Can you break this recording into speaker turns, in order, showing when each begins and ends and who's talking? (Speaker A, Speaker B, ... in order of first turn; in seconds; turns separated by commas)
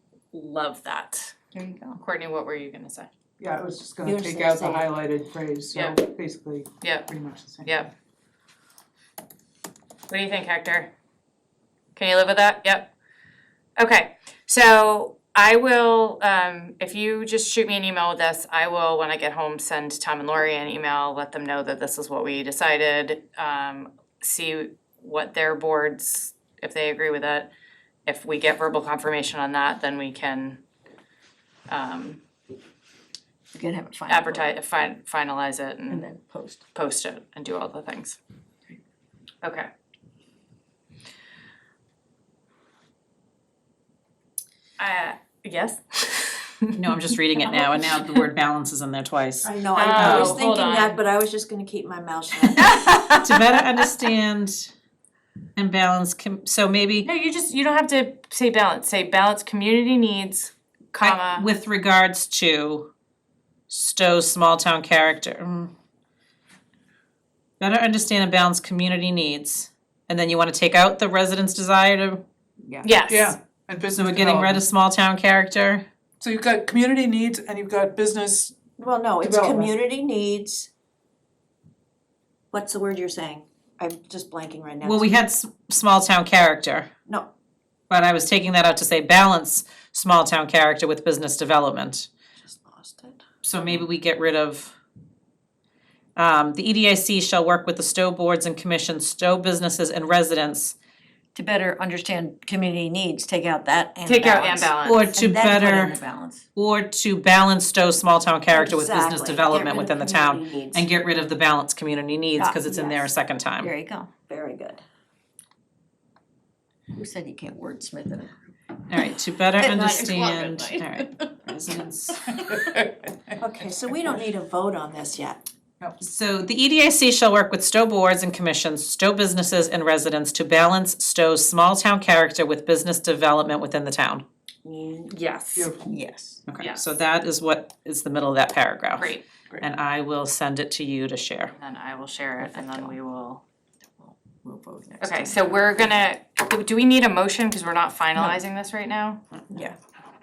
Speaker A: 0.3-1.3, Speaker B: 1.5-2.0, Speaker A: 2.0-3.1, Speaker C: 3.4-7.7, Speaker D: 4.0-4.8, Speaker B: 4.0-4.8, Speaker A: 5.7-6.0, Speaker A: 6.8-7.1, Speaker A: 7.6-7.9, Speaker A: 10.1-10.9, Speaker A: 11.9-12.9, Speaker A: 13.8-27.5, Speaker A: 28.1-30.6, Speaker A: 31.7-32.2, Speaker B: 33.5-34.6, Speaker A: 34.1-36.1, Speaker B: 35.9-36.6, Speaker A: 36.7-38.2, Speaker A: 39.4-39.7, Speaker A: 44.8-46.7, Speaker E: 46.8-50.4, Speaker A: 47.5-48.2, Speaker D: 49.4-52.6, Speaker A: 49.7-51.0, Speaker B: 50.0-50.4, Speaker E: 52.6-54.7, Speaker A: 52.8-53.4, Speaker E: 55.5-57.1, Speaker A: 57.0-61.5, Speaker E: 61.0-62.9, Speaker E: 63.7-65.7, Speaker E: 67.6-72.2, Speaker B: 72.7-72.9, Speaker A: 72.8-73.4, Speaker C: 73.1-74.7, Speaker E: 73.9-75.8, Speaker C: 76.2-78.5, Speaker D: 78.8-80.7, Speaker C: 79.2-79.7, Speaker D: 82.5-85.0, Speaker E: 84.8-86.9, Speaker E: 87.9-92.1, Speaker D: 92.5-93.2, Speaker E: 93.4-94.7, Speaker E: 96.2-100.7, Speaker B: 101.3-106.4, Speaker A: 104.0-105.1, Speaker E: 104.8-106.0, Speaker E: 106.5-113.7, Speaker D: 108.5-110.8, Speaker B: 112.3-114.2, Speaker D: 114.3-114.8, Speaker B: 116.9-118.4, Speaker E: 118.9-122.3, Speaker B: 119.6-121.2, Speaker D: 123.4-125.4, Speaker E: 126.0-134.2, Speaker D: 134.6-135.1, Speaker A: 135.1-135.7, Speaker C: 135.5-135.9, Speaker B: 135.8-136.4, Speaker E: 136.5-141.5, Speaker A: 141.6-143.4, Speaker B: 142.4-142.9, Speaker B: 144.0-145.4, Speaker A: 145.0-149.2, Speaker B: 149.5-149.8